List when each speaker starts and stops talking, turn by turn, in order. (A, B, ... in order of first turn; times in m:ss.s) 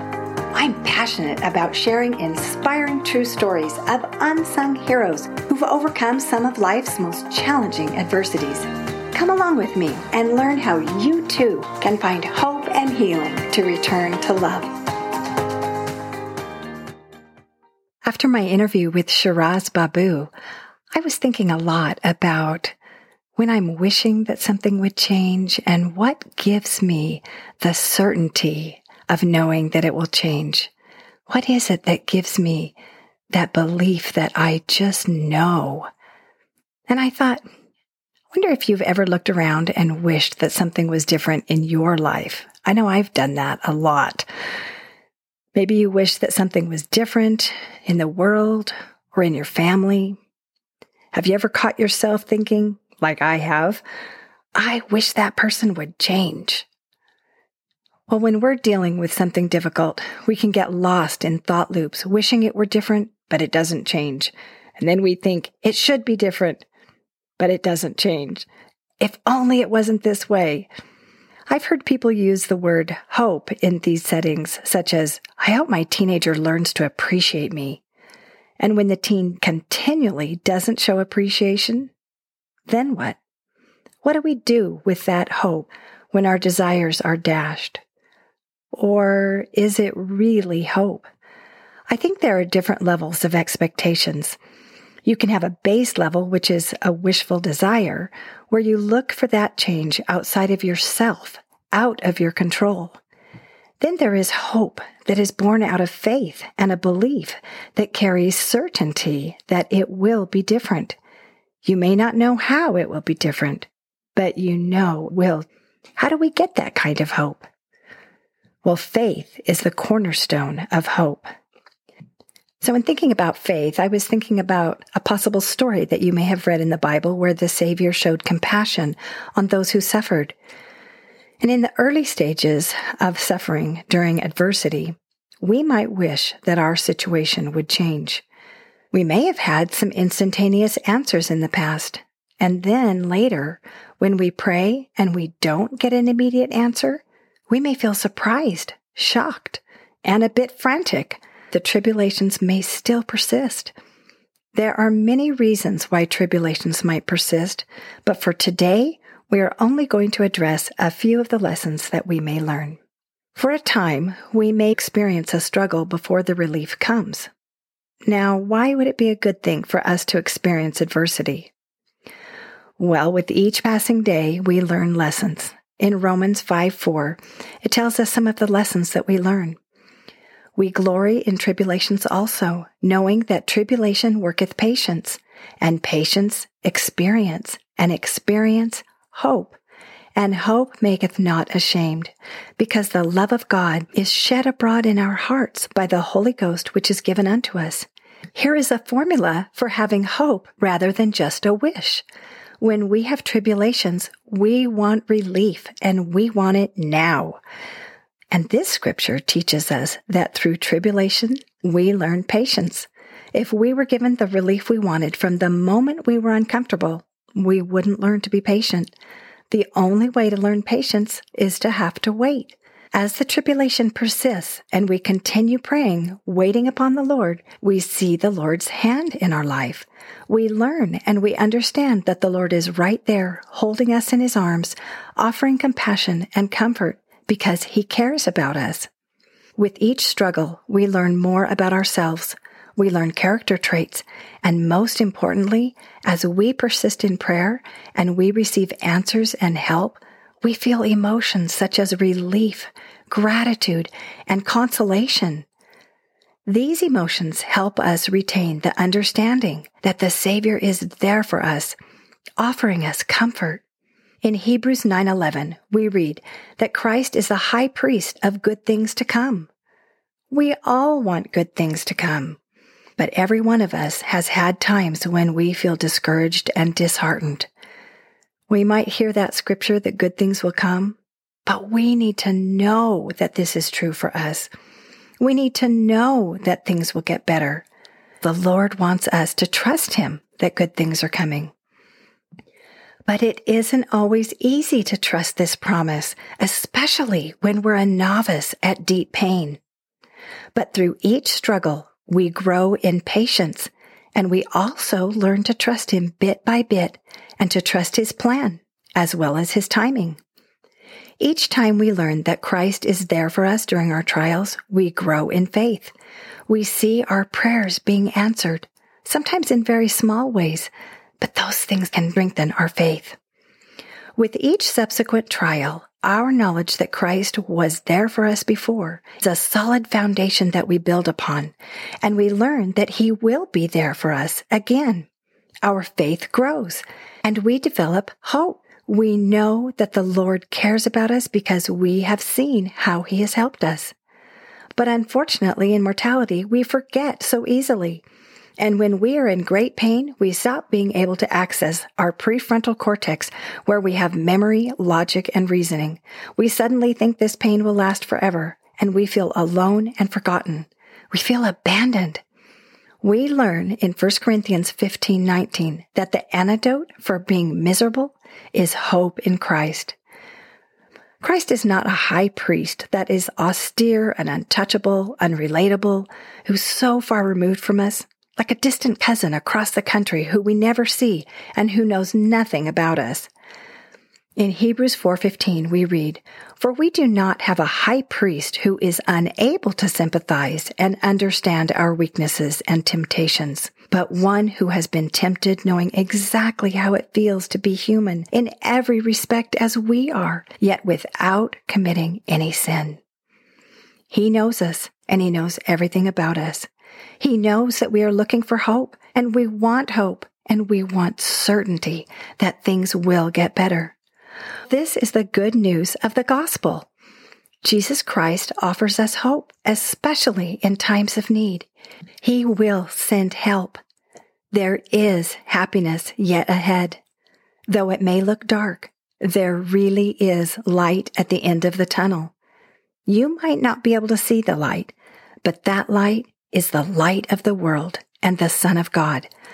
0:00.5-0:14.7 A
0:18.0-0:20.3 A
0:20.9-0:22.8 A
0:23.4-0:30.7 A
0:31.3-0:32.7 A
0:33.3-0:35.9 A
0:36.9-0:37.4 A
0:38.3-0:44.3 A
0:45.5-0:50.2 A
0:51.1-0:53.8 A
0:54.6-0:56.7 A
0:58.1-1:06.6 A
1:07.4-1:08.5 A
1:09.0-1:10.7 A
1:11.5-1:17.8 A
1:18.6-1:21.9 A
1:22.7-1:23.2 A
1:24.0-1:27.8 A
1:28.7-1:31.1 A
1:31.9-1:34.4 A
1:35.0-1:43.0 A
1:43.8-1:51.0 A
1:51.6-1:55.5 A
1:56.0-1:57.5 A
1:58.6-2:01.3 A
2:02.6-2:10.3 A
2:11.4-2:18.2 A
2:18.9-2:33.7 A
2:34.5-2:42.8 A
2:43.3-2:47.3 A
2:48.1-2:51.5 A
2:52.8-2:59.6 A
3:00.6-3:09.6 A
3:10.2-3:22.0 A
3:22.6-3:27.4 A
3:28.3-3:38.9 A
3:39.5-3:58.9 A
3:59.6-4:15.5 A
4:16.5-4:21.8 A
4:22.4-4:23.6 A
4:24.2-4:29.5 A
4:30.3-4:32.4 A
4:33.0-4:37.5 A
4:38.5-4:44.5 A
4:45.2-4:47.7 A
4:48.2-4:51.5 A
4:53.1-4:59.6 A
5:00.5-5:10.2 A
5:11.2-5:15.9 A
5:16.5-5:23.2 A
5:24.2-5:35.1 A
5:35.6-5:43.9 A
5:44.8-5:48.0 A
5:48.6-6:02.2 A
6:03.0-6:10.0 A
6:11.2-6:23.3 A
6:24.4-6:43.0 A
6:44.1-6:46.7 A
6:47.2-6:54.0 A
6:54.7-6:56.9 A
6:57.6-7:01.7 A
7:02.2-7:03.8 A
7:04.5-7:07.0 A
7:07.7-7:12.3 A
7:13.1-7:19.3 A